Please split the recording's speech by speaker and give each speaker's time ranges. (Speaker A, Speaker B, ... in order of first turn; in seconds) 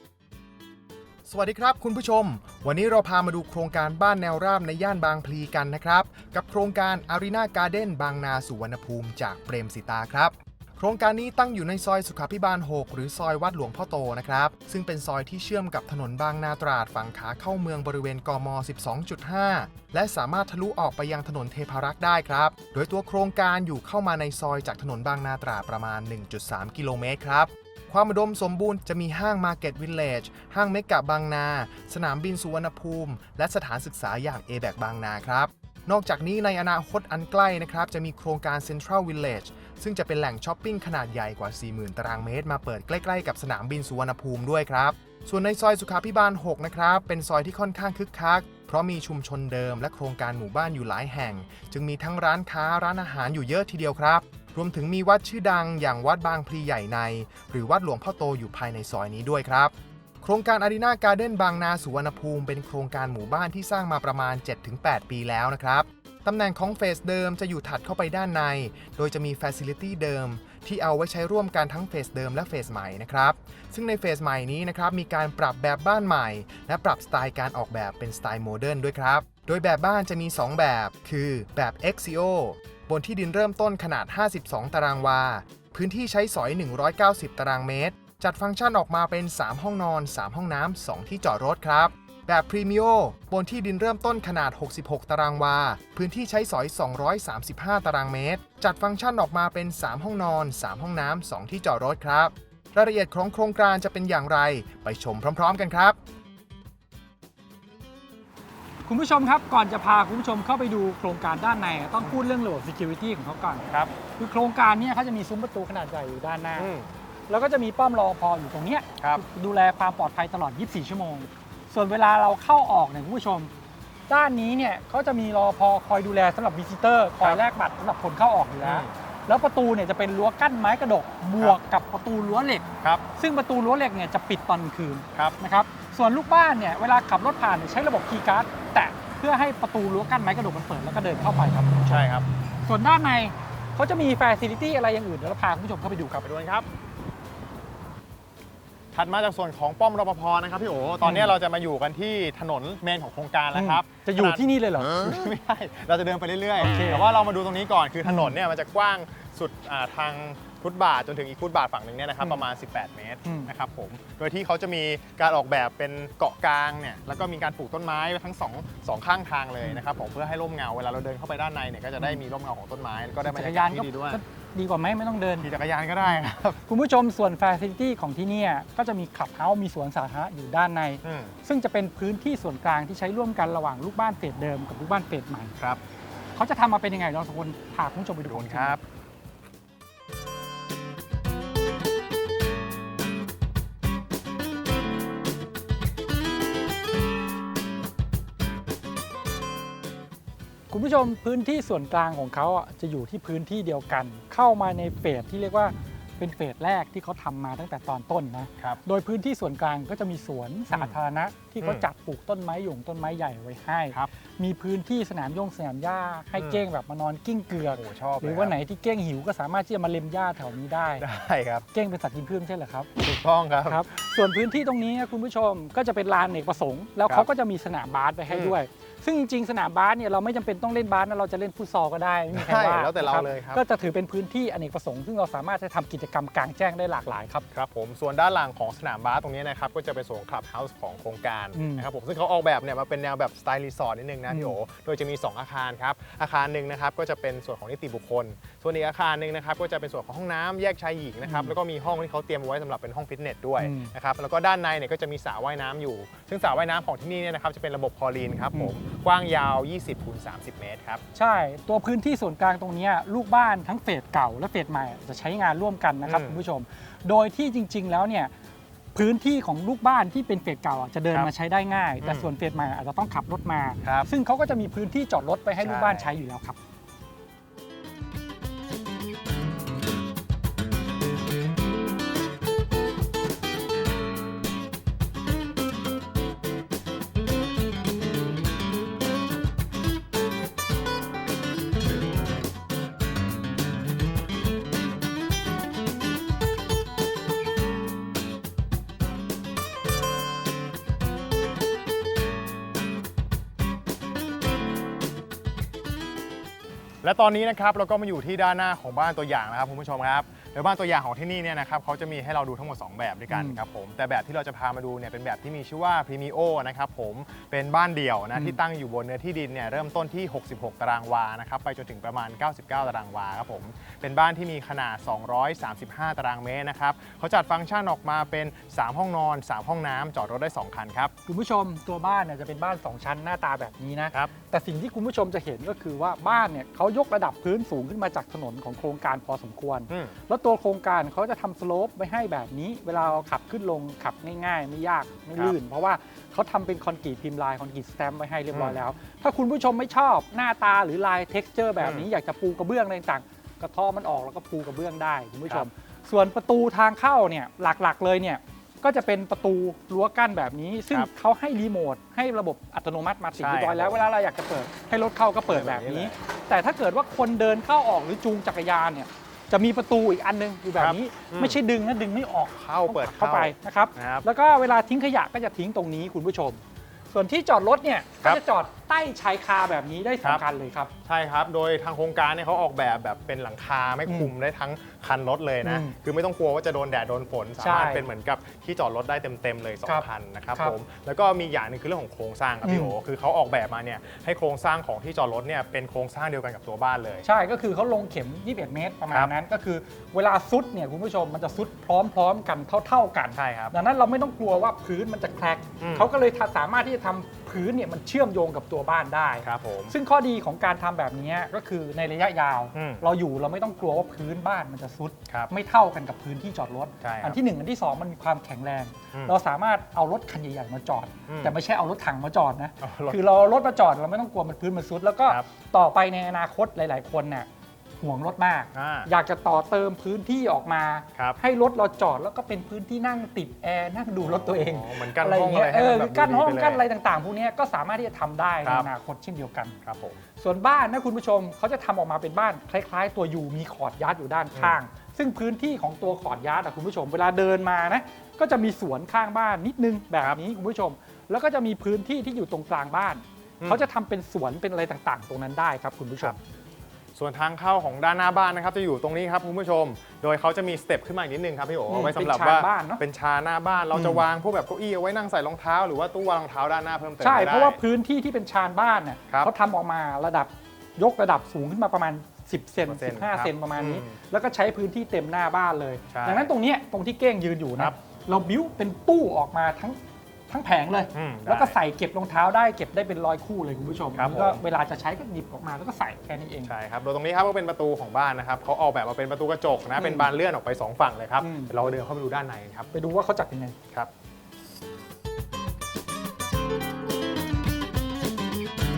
Speaker A: 1.3-106.0
Speaker B: 108.9-116.7, 117.3-123.5, 124.1-132.7, 133.2-142.1, 142.7-146.2, 151.0-151.3, 153.5-155.3, 156.6-157.0, 158.1-158.3, 163.2-163.5, 173.2-175.5, 176.7-185.5, 186.4-188.8, 200.7-221.1, 221.7-222.9, 223.7-237.4, 241.6-241.9, 244.3-244.6, 251.2-251.5, 253.6-253.9, 261.1-268.3, 268.9-276.6, 313.3-313.6, 331.3-380.9, 384.1-384.3, 385.6-385.9, 387.6-388.1, 392.6-392.9, 397.2-427.5, 428.0-439.8, 440.4-456.4, 461.9-463.0, 463.9-464.2, 467.2-486.7, 489.9-490.3, 491.4-491.8, 492.9-493.8
Speaker C: 116.6-116.9, 128.6-128.9, 141.9-142.2, 146.2-146.7, 148.9-174.2, 175.4-176.6, 181.1-181.4, 188.2-188.8, 210.7-211.0, 216.4-216.6, 217.7-218.6, 221.0-221.7, 223.0-223.9, 228.3-228.6, 232.3-233.6, 237.5-261.0, 266.0-266.4, 272.0-272.3, 273.8-274.1, 275.6-276.1, 307.0-331.1, 348.5-348.8, 351.8-352.1, 363.4-364.0, 365.4-366.2, 370.8-371.6, 372.6-374.2, 381.1-397.2, 403.4-403.7, 405.8-406.1, 409.4-409.9, 412.8-413.0, 417.0-417.4, 421.3-421.6, 422.8-423.2, 428.7-429.1, 434.2-436.8, 439.9-440.2, 457.2-467.8, 472.9-474.1, 476.1-476.5, 481.1-481.8, 484.1-484.6, 486.7-492.9